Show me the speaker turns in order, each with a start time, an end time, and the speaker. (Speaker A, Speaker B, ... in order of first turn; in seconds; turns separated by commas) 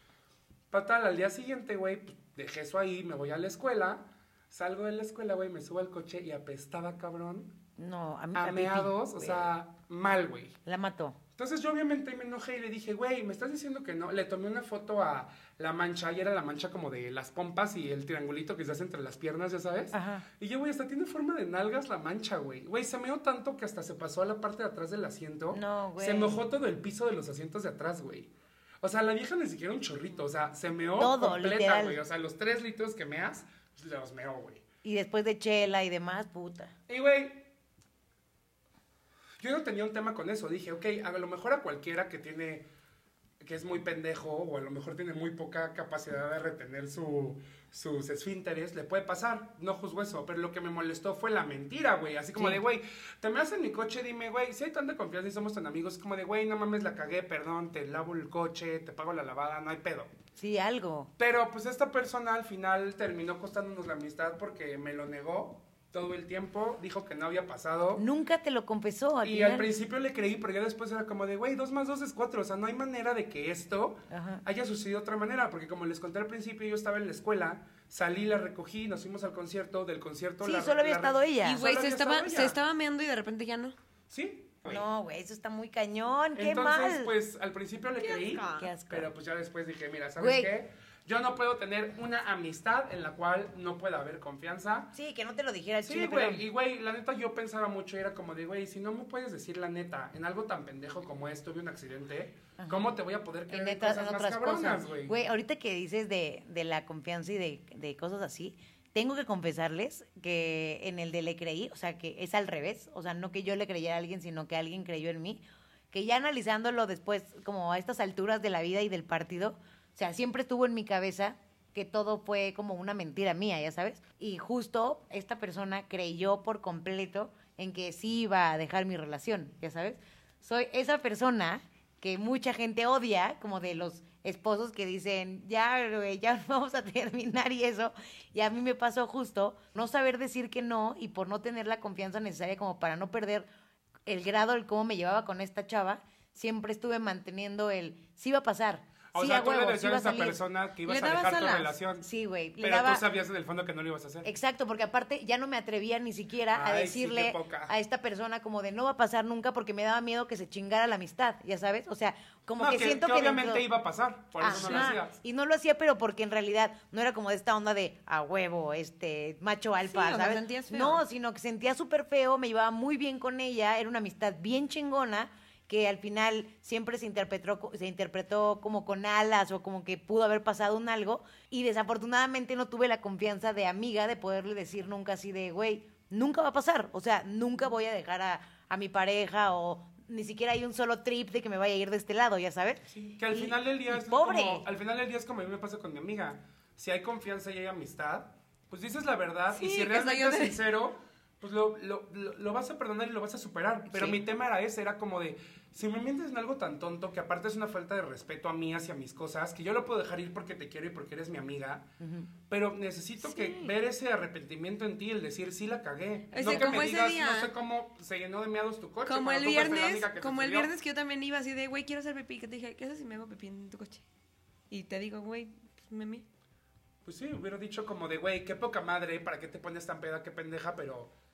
Speaker A: 0.7-7.6, Speaker B: 7.8-9.5, Speaker A: 8.3-10.6, Speaker B: 10.7-11.2, Speaker A: 11.4-28.3, Speaker B: 19.9-20.3, Speaker B: 25.5-26.4, Speaker A: 28.8-34.6, Speaker B: 31.0-32.0, Speaker B: 34.8-36.7, Speaker A: 36.9-37.5, Speaker A: 39.4-42.6, Speaker A: 43.4-60.1, Speaker B: 60.4-61.1, Speaker A: 61.2-68.0, Speaker B: 68.0-69.7, Speaker A: 69.2-82.6, Speaker B: 74.1-74.4, Speaker B: 80.4-81.6, Speaker C: 81.4-83.7, Speaker A: 84.1-84.8, Speaker B: 84.7-87.1, Speaker A: 86.3-94.9, Speaker C: 88.0-88.7, Speaker B: 88.5-89.1, Speaker B: 90.2-90.5, Speaker B: 94.9-96.4, Speaker A: 95.8-105.1, Speaker B: 102.6-102.9, Speaker B: 103.5-143.5, Speaker B: 144.1-150.4, Speaker A: 149.1-152.1, Speaker C: 150.8-151.7, Speaker B: 152.0-153.0, Speaker A: 152.6-154.3, Speaker B: 154.2-163.6, Speaker A: 156.5-157.7, Speaker A: 162.6-165.2, Speaker B: 164.4-194.6, Speaker C: 164.5-164.9, Speaker C: 169.9-171.0, Speaker A: 192.9-211.9, Speaker C: 199.5-200.6, Speaker B: 203.9-204.2, Speaker B: 212.0-212.3, Speaker A: 212.5-220.7, Speaker C: 213.2-213.7, Speaker C: 216.3-217.5, Speaker C: 219.1-224.0, Speaker C: 224.7-226.2, Speaker A: 227.0-231.1